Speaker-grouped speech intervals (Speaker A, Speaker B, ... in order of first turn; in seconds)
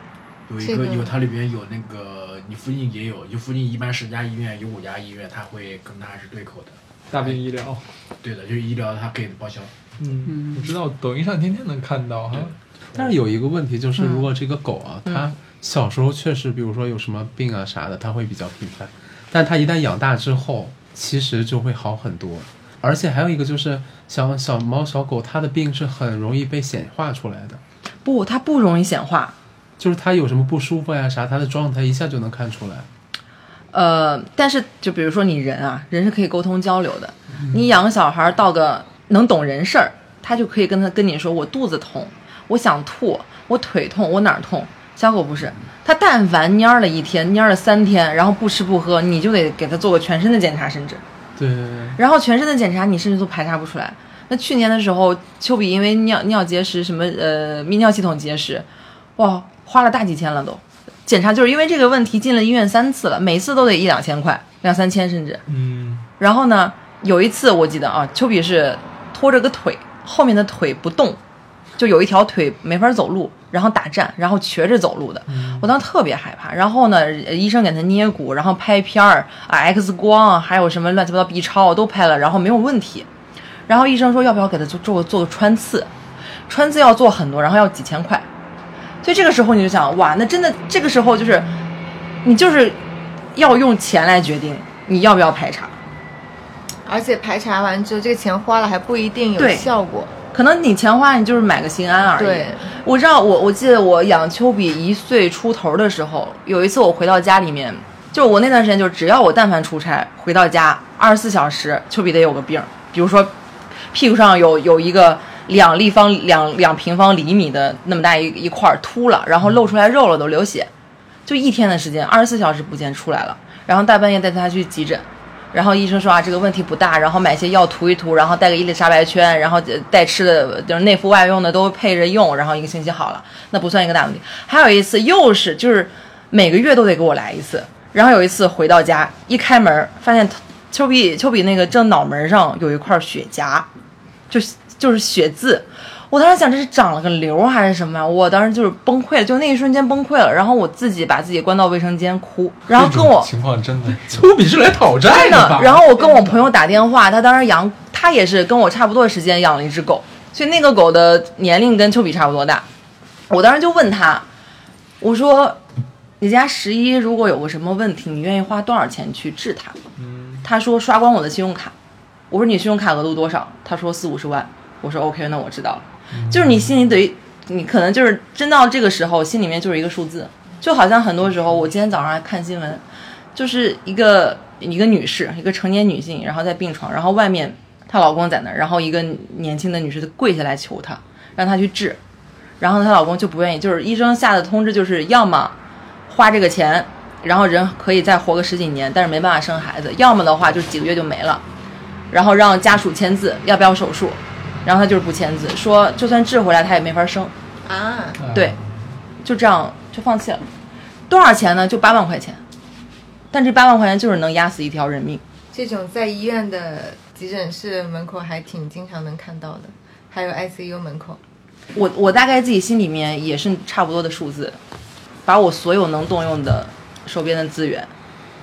Speaker A: 0.5-7.4, 8.2-9.8
Speaker B: 0.6-1.1, 96.9-100.1, 102.2-102.8, 156.0-156.3, 207.7-208.2, 215.5-221.2
Speaker C: 7.1-7.8, 10.0-12.5, 65.5-66.1, 75.3-75.7, 152.7-154.3, 170.0-170.5, 176.1-176.8, 208.2-208.8
Speaker D: 10.2-10.7, 12.9-27.6, 29.8-32.9, 51.4-52.0, 154.0-155.8
Speaker E: 14.0-14.3, 28.1-29.4, 33.7-51.0, 52.0-58.7, 59.2-65.4, 66.2-71.2, 71.8-83.1, 83.7-85.9, 86.5-88.3, 89.0-91.5, 92.2-92.8, 93.3-95.8, 99.4-99.7, 100.3-113.3, 113.9-120.7, 121.3-143.7, 144.3-153.3, 155.1-162.7, 163.3-164.2, 165.0-165.6, 166.2-169.8, 170.4-171.7, 172.3-182.8, 183.3-192.0, 192.6-195.5, 196.1-201.4, 202.1-207.3, 209.2-210.4, 211.1-212.4, 213.3-215.2, 221.7-224.6, 225.3-227.9